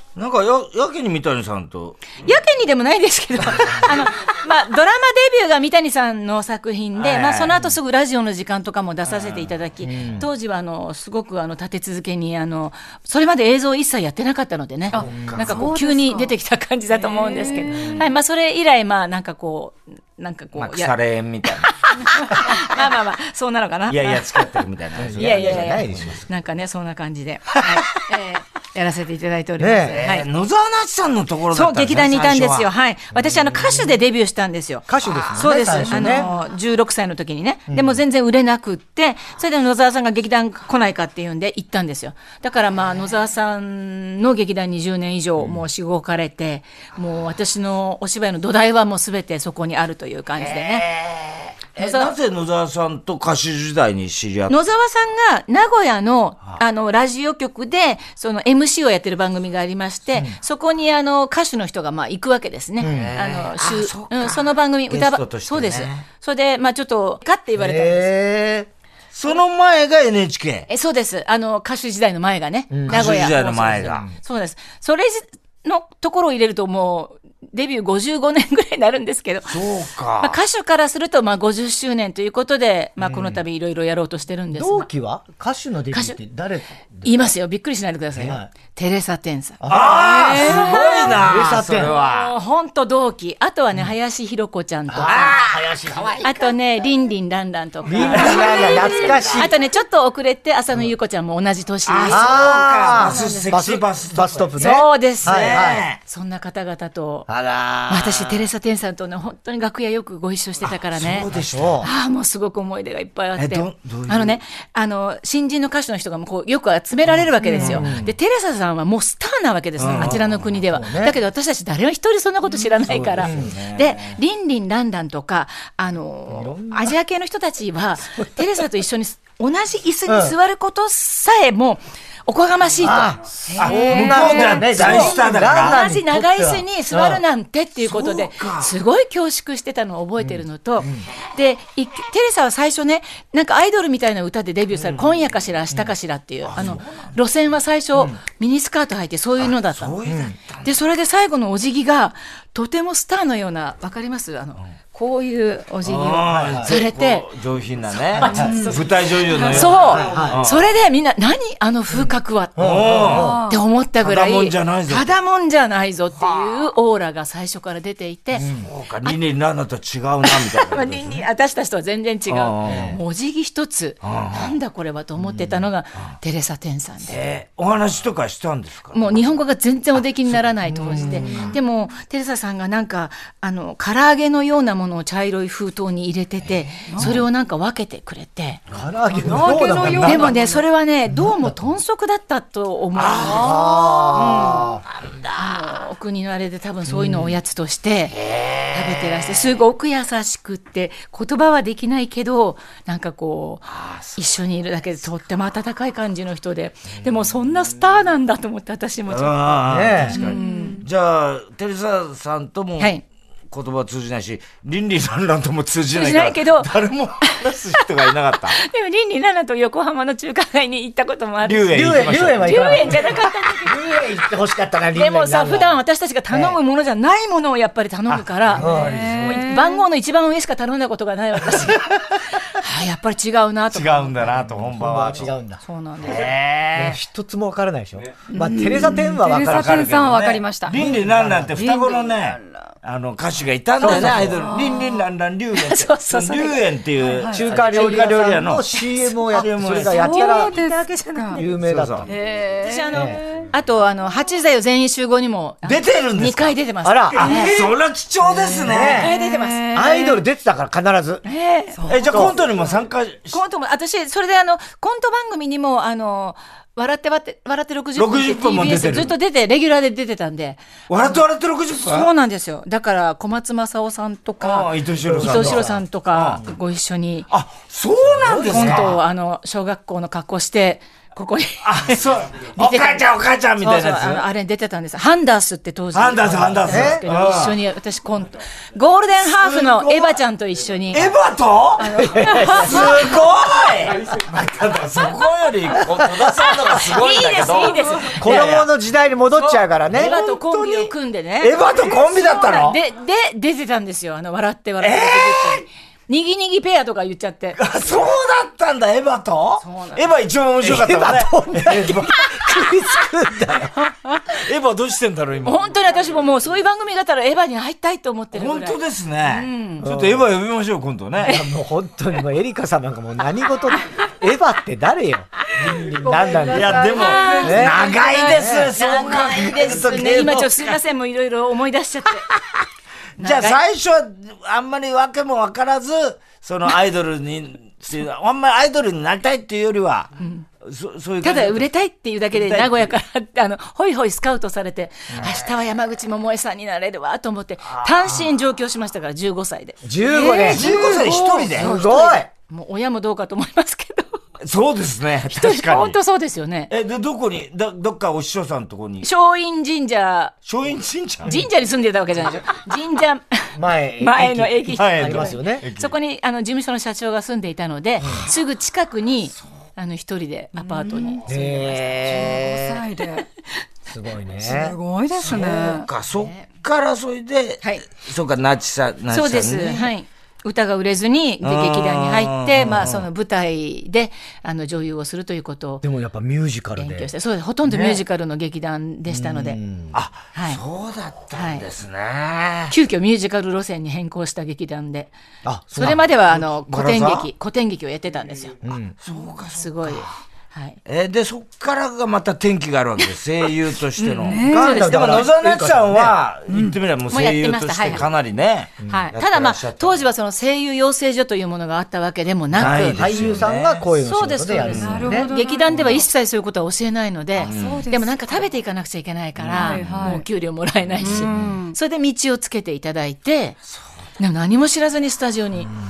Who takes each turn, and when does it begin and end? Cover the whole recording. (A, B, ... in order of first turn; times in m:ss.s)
0:00.2-0:02.2 A
0:02.2-0:20.9 B
0:03.6-0:03.9 A
0:07.0-0:07.6 A
0:09.0-0:09.5 A
0:09.8-0:10.3 C
0:14.9-0:16.3 D
0:14.9-0:15.7 A
0:15.1-0:15.5 C
0:16.9-0:18.0 D
0:20.6-0:21.7 A
0:21.7-0:24.4 B
0:23.9-0:26.2 A
0:25.0-0:26.2 C
0:25.2-0:30.2 B
0:29.6-0:30.0 C
0:29.9-0:32.7 A
0:31.5-0:50.9 B
0:33.5-0:33.8 C
0:34.9-0:36.3 C
0:37.7-0:38.0 C
0:50.4-0:54.6 A
0:51.8-0:52.1 B
0:54.5-1:08.1 B
1:02.8-1:03.2 C
1:02.8-1:06.0 A
1:07.6-1:08.7 C
1:09.1-1:10.7 A
1:10.7-1:19.6 B
1:12.7-1:13.3 C
1:12.9-1:14.1 A
1:19.5-1:20.4 A
1:20.2-1:24.9 B
1:23.0-1:23.4 C
1:24.5-1:27.2 C
1:25.9-1:26.2 B
1:27.0-1:31.2 B
1:28.2-1:28.5 C
1:29.6-1:32.0 C
1:29.7-1:32.3 A
1:30.3-1:30.6 D
1:31.9-1:35.4 B
1:34.9-1:36.2 C
1:35.0-1:36.3 A
1:36.2-1:43.5 B
1:37.8-1:39.5 C
1:38.2-1:39.3 A
1:41.8-1:44.7 A
1:42.1-1:45.8 C
1:44.6-1:47.3 B
1:45.2-1:46.0 A
1:47.3-1:48.4 C
1:47.9-1:51.3 B
1:50.6-1:51.8 A
1:51.3-1:51.9 C
1:51.8-2:30.0 B
1:53.4-1:54.4 A
1:57.4-1:57.8 D
1:57.4-1:58.1 C
1:59.8-2:00.3 A
2:00.0-2:01.2 C
2:02.8-2:04.2 A
2:03.2-2:03.6 C
2:06.3-2:07.0 C
2:10.1-2:10.3 C
2:12.8-2:17.2 C
2:13.6-2:15.8 A
2:17.8-2:18.7 A
2:20.2-2:21.0 C
2:26.4-2:27.1 A
2:29.4-2:30.7 A
2:30.0-2:30.3 C
2:30.6-2:37.3 B
2:35.8-2:40.7 A
2:36.3-2:36.7 C
2:38.2-2:38.7 C
2:38.2-2:38.8 B
2:38.3-2:38.8 D
2:39.3-2:39.6 D
2:39.4-2:48.5 B
2:39.5-2:40.4 C
2:42.6-2:43.4 C
2:42.6-2:43.4 A
2:43.1-2:43.6 D
2:44.0-2:45.1 A
2:46.2-2:46.5 A
2:48.3-2:48.7 C
2:48.6-2:51.2 A
2:50.2-2:57.2 B
2:52.3-2:53.0 A
2:52.6-2:53.0 C
2:54.0-2:54.5 A
2:57.0-2:59.3 A
2:58.9-3:08.6 B
3:00.7-3:01.6 C
3:01.0-3:01.5 A
3:06.9-3:07.2 D
3:08.7-3:10.3 C
3:09.2-3:10.6 D
3:09.2-3:10.3 A
3:10.0-3:14.7 B
3:11.1-3:11.6 C
3:13.0-3:13.6 A
3:13.2-3:14.6 D
3:13.2-3:14.8 C
3:14.9-3:15.8 A
3:15.3-3:18.2 B
3:16.9-3:17.4 C
3:18.1-3:19.6 A
3:18.7-3:30.8 B
3:23.7-3:24.2 A
3:29.1-3:32.9 A
3:29.7-3:30.2 C
3:30.2-3:30.8 D
3:32.8-3:33.0 B
3:33.5-3:38.6 A
3:35.9-3:36.7 B
3:37.2-3:37.8 B
3:38.5-3:44.0 B
3:41.4-3:43.0 A
3:41.7-3:46.6 C
3:44.9-3:51.8 B
3:48.1-3:49.5 A
3:48.5-3:49.1 C
3:48.6-3:49.8 D
3:51.5-3:51.8 A
3:52.5-3:54.4 B
3:53.7-3:55.3 A
3:54.5-3:55.6 C
3:55.6-3:56.3 B
3:56.0-3:57.0 A
3:56.7-4:00.0 C
3:58.3-4:00.8 D
3:59.3-4:08.8 A
4:00.8-4:01.6 C
4:01.5-4:02.6 D
4:03.8-4:04.4 C
4:03.8-4:04.3 B
4:04.3-4:05.0 D
4:05.5-4:06.6 B
4:07.2-4:07.4 D
4:07.3-4:10.6 C
4:07.5-4:08.8 B
4:09.3-4:10.0 A
4:09.8-4:11.5 B
4:09.9-4:11.4 D
4:11.3-4:12.1 C
4:11.6-4:12.1 A
4:12.1-4:13.2 D
4:12.6-4:17.7 B
4:12.9-4:13.2 C
4:15.6-4:16.5 A
4:16.8-4:17.3 C
4:17.1-4:19.1 A
4:18.6-4:19.2 C
4:18.8-4:20.2 D
4:18.8-4:19.9 B
4:19.7-4:21.2 C
4:21.2-4:22.4 B
4:21.7-4:22.2 D
4:21.9-4:23.4 A
4:22.0-4:22.3 C
4:23.3-4:31.2 B
4:28.0-4:29.2 A
4:30.9-4:32.1 A
4:31.7-4:37.3 B
4:34.4-4:36.4 A
4:35.0-4:35.8 C
4:37.3-4:39.0 A
4:38.1-4:38.9 C
4:38.4-4:43.1 B
4:41.6-4:44.2 A
4:43.6-4:51.1 B
4:45.9-4:47.6 A
4:46.6-4:47.0 C
4:49.3-4:50.2 A
4:50.9-4:51.9 A
4:51.8-4:52.9 B
4:52.0-4:53.1 C
4:52.4-4:58.7 A
4:56.0-4:56.3 C
4:56.2-4:58.5 B
4:58.2-5:00.1 C
4:59.3-5:07.6 B
4:59.9-5:02.8 A
5:04.8-5:05.6 A
5:07.6-5:12.0 A
5:09.6-5:10.1 B
5:10.6-5:13.8 C
5:14.3-5:15.7 A
5:15.4-5:19.9 B
5:18.3-5:21.4 A
5:19.8-5:20.2 C
5:21.2-5:28.7 C
5:26.1-5:32.2 B
5:26.4-5:30.8 A
5:26.8-5:28.1 D
5:32.3-5:32.6 A
5:33.2-5:33.6 B
5:33.2-5:41.6 A
5:40.2-5:40.4 B
5:41.2-5:54.2 B
5:42.3-5:42.9 A
5:45.2-5:45.5 A
5:47.7-5:48.2 A
5:49.8-5:52.3 C
5:50.1-5:51.4 D
5:50.5-5:51.7 A
5:54.4-5:56.0 A
5:55.3-5:56.7 B
5:56.7-5:59.1 A
5:59.0-6:00.3 B
6:00.4-6:01.4 A
6:01.2-6:03.4 B
6:03.5-6:05.6 C
6:04.0-6:11.9 B
6:04.7-6:05.9 A
6:08.0-6:08.3 C
6:10.5-6:11.3 D
6:11.2-6:12.8 C
6:12.0-6:13.2 D
6:13.9-6:14.8 C
6:14.4-6:15.9 D
6:15.1-6:19.9 A
6:16.1-6:16.4 B
6:19.1-6:25.8 B
6:21.4-6:23.1 A
6:25.8-6:27.1 C
6:26.8-6:29.6 B
6:27.7-6:28.0 A
6:29.1-6:30.0 C
6:29.9-6:32.7 A
6:30.3-6:30.6 B
6:31.3-6:31.6 B
6:32.7-6:35.1 B
6:35.4-6:36.0 C
6:35.7-6:40.8 B
6:35.9-6:37.3 A
6:38.6-6:38.9 C
6:39.0-6:40.2 A
6:40.8-6:50.1 A
6:44.0-6:45.3 B
6:44.2-6:44.8 D
6:44.5-6:46.2 C
6:46.5-6:46.8 D
6:47.1-6:48.0 B
6:48.9-6:53.3 B
6:52.5-6:53.9 A
6:52.6-6:55.3 C
6:54.0-7:03.6 B
6:54.6-6:55.1 A
6:54.7-6:56.0 D
6:57.4-6:57.8 A
6:57.4-6:58.3 D
6:59.4-7:00.1 A
6:59.6-7:00.2 D
7:01.0-7:01.8 D
7:01.1-7:01.5 A
7:04.2-7:05.7 B